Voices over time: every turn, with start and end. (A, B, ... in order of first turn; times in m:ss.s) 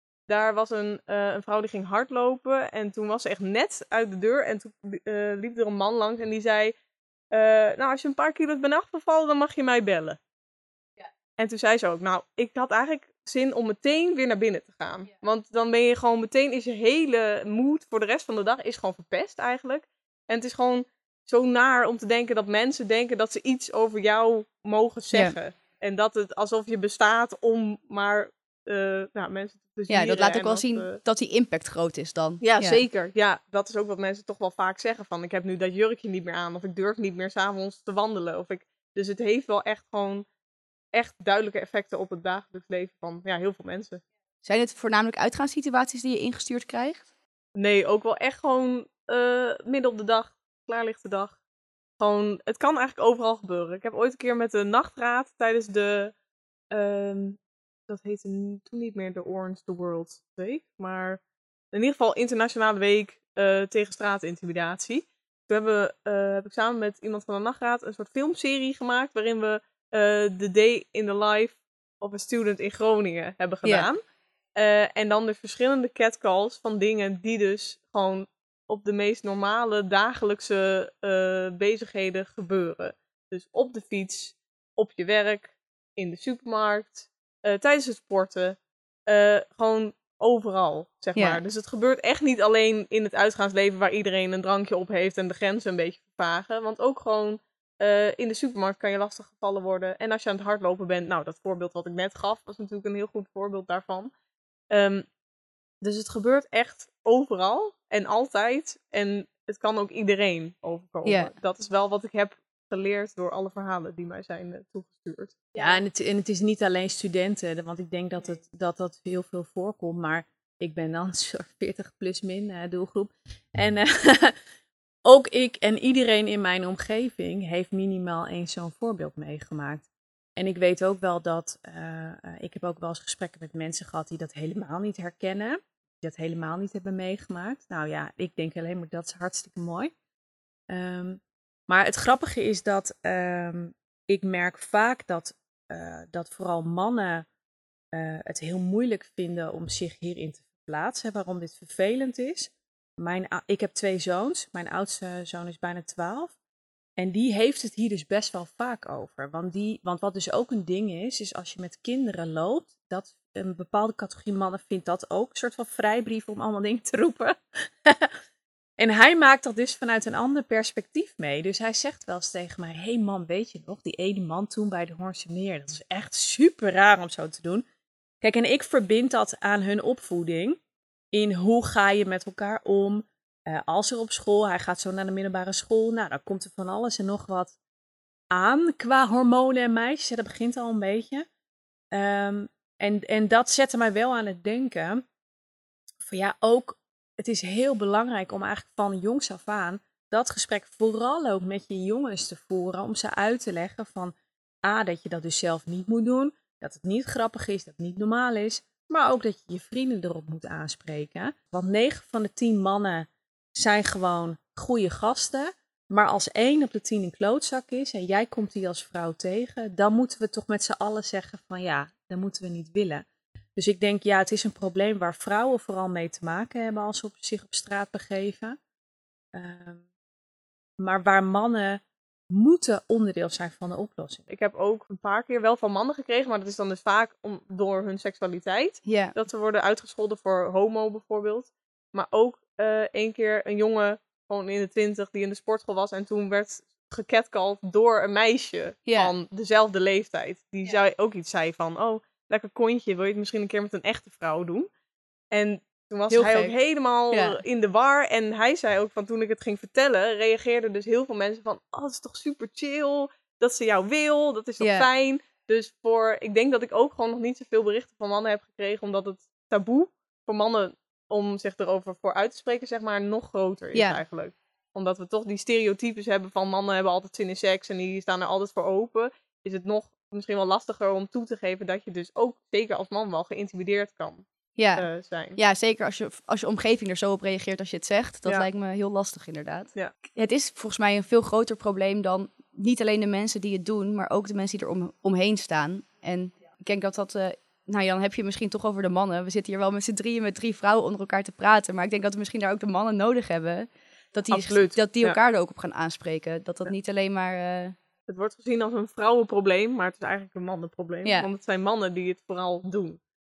0:00.3-0:06.7 A
0:07.3-0:10.2 A
0:11.4-0:31.0 A
0:29.9-0:32.8 B
0:32.4-0:40.3 A
0:40.9-0:44.0 A
0:44.4-0:47.0 B
0:47.6-0:51.4 A
0:52.0-0:56.1 A
0:56.7-1:01.2 A
1:01.7-1:14.0 A
1:14.6-1:44.1 A
1:31.2-1:31.4 B
1:44.7-1:45.0 A
1:45.8-1:55.5 A
1:51.0-1:51.3 B
1:55.6-2:04.4 C
2:05.0-2:19.9 C
2:20.7-2:27.3 C
2:27.9-2:36.4 C
2:37.0-2:48.2 C
2:48.8-2:57.6 C
2:58.2-3:00.6 C
3:01.1-3:07.6 C
3:08.3-3:11.3 C
3:11.9-3:15.0 C
3:16.0-3:43.0 C
3:43.6-3:48.6 C
3:49.3-3:49.8 C
3:50.8-3:54.3 C
3:54.3-4:14.7 A
3:58.8-3:59.1 B
4:08.9-4:09.1 B
4:15.3-4:44.3 A
4:16.1-4:16.5 B
4:17.1-4:17.4 B
4:24.6-4:24.9 B
4:33.7-4:34.0 B
4:44.6-4:44.9 B
4:44.8-4:45.4 A
4:45.4-5:07.8 B
5:04.3-5:05.2 A
5:08.1-5:13.0 A